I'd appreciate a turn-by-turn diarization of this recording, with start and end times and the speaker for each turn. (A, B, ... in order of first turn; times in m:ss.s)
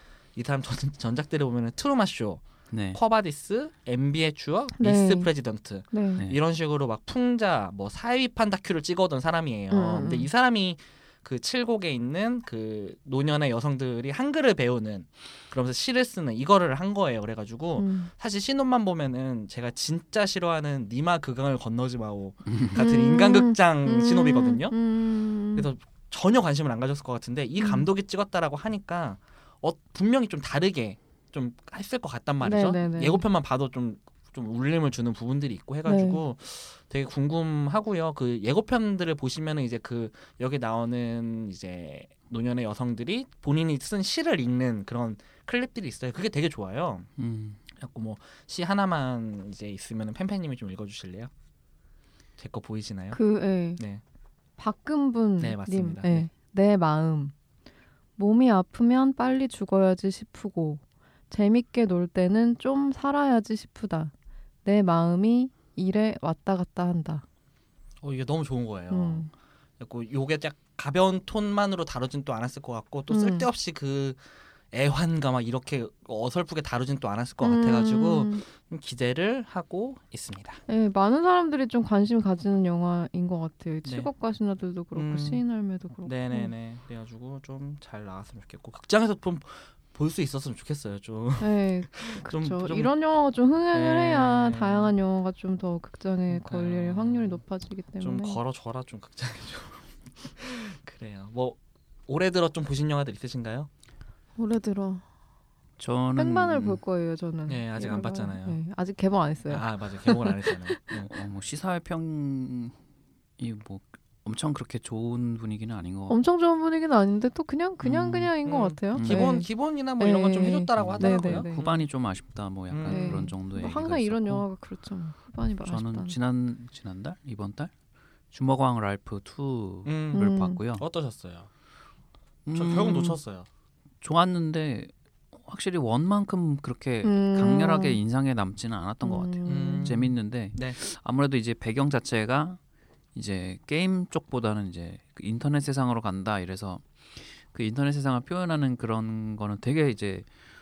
0:00.4-0:24.7 A
0:02.7-0:03.0 B
0:04.8-0:05.3 C
0:05.9-0:06.2 C
0:09.7-0:10.3 C
0:17.8-0:18.1 C
0:22.5-0:22.8 B
0:22.8-0:25.7 C
0:25.6-0:47.1 A
0:27.6-0:27.9 C
0:32.4-0:33.2 C
0:35.8-0:36.2 C
0:47.2-0:47.6 B
0:47.8-0:51.3 A
0:52.4-0:53.2 A
0:53.1-0:53.8 C
0:53.8-0:54.0 A
0:54.6-0:57.3 C
0:55.4-0:56.3 A
0:58.2-1:04.1 C
1:04.6-1:07.2 C
1:08.0-1:09.3 A
1:08.9-1:09.3 C
1:09.8-1:14.2 A
1:13.1-1:13.5 C
1:14.7-1:20.6 A
1:17.4-1:18.4 C
1:20.7-1:26.5 C
1:23.8-1:24.1 A
1:24.9-1:25.4 A
1:26.0-1:32.9 A
1:31.4-1:38.4 C
1:33.7-1:34.9 A
1:36.3-1:37.4 A
1:38.0-1:43.7 A
1:44.4-1:45.0 C
1:45.8-1:46.8 B
1:46.2-1:50.6 C
1:47.5-1:48.6 A
1:49.5-1:51.1 A
1:51.1-1:52.8 B
1:53.4-1:56.2 B
1:56.1-2:01.8 C
1:57.8-1:58.3 B
1:58.4-2:01.5 A
1:58.9-1:59.4 B
2:00.7-2:04.4 B
2:02.7-2:03.2 A
2:02.9-2:06.2 C
2:05.6-2:07.7 B
2:08.3-2:10.8 B
2:09.9-2:11.5 A
2:10.1-2:10.6 C
2:12.4-2:13.2 B
2:12.5-2:13.5 A
2:14.0-2:22.6 B
2:17.0-2:18.0 C
2:19.0-2:19.9 C
2:19.5-2:20.8 A
2:23.1-2:30.3 B